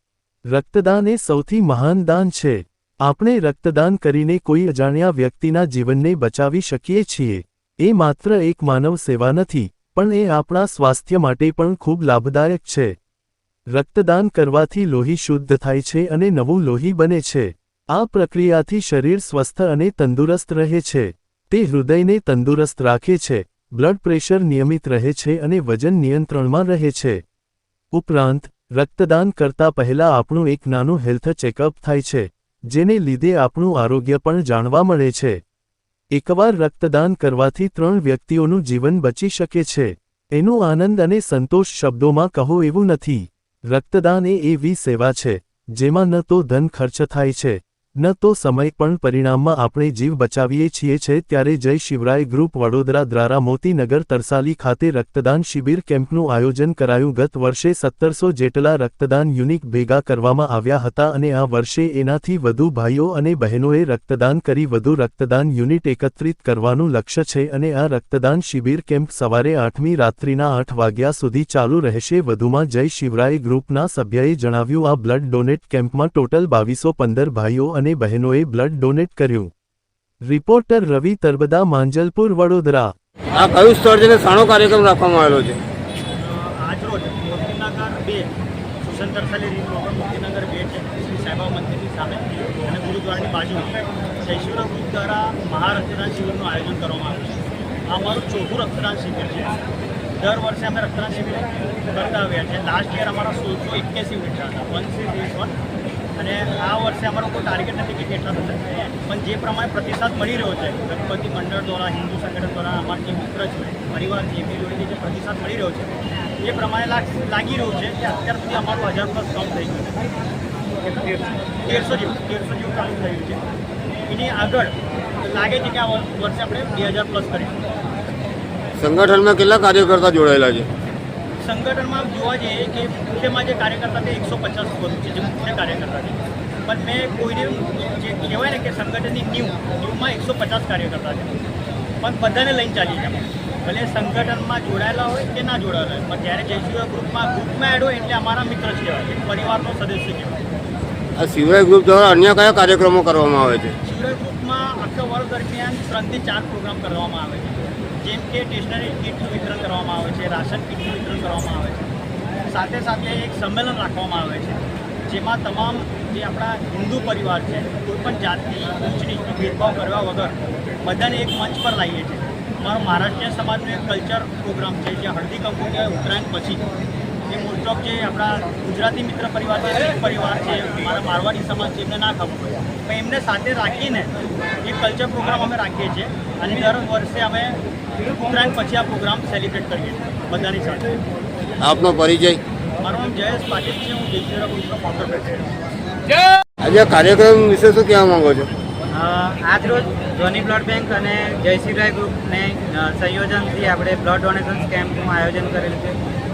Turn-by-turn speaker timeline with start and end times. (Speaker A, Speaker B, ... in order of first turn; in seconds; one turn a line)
Speaker A: 0.5-12.9
Speaker A: 13.7-27.2
Speaker A: 27.9-35.4
Speaker A: 36.1-79.5
Speaker A: 80.2-82.9
Speaker B: 83.3-85.6
Speaker C: 86.2-88.3
Speaker C: 88.8-97.4
Speaker C: 97.9-99.6
Speaker C: 100.2-105.6
Speaker C: 106.2-120.0
Speaker C: 120.9-123.5
Speaker C: 124.1-127.6
Speaker B: 128.8-130.7
Speaker C: 131.4-141.3
Speaker C: 142.0-150.4
Speaker B: 151.2-153.7
Speaker C: 153.8-161.9
Speaker C: 162.4-176.7
Speaker C: 177.3-184.1
Speaker C: 184.6-191.0
Speaker B: 191.6-192.4
Speaker C: 192.8-195.5
Speaker B: 196.6-198.5
Speaker D: 198.9-206.0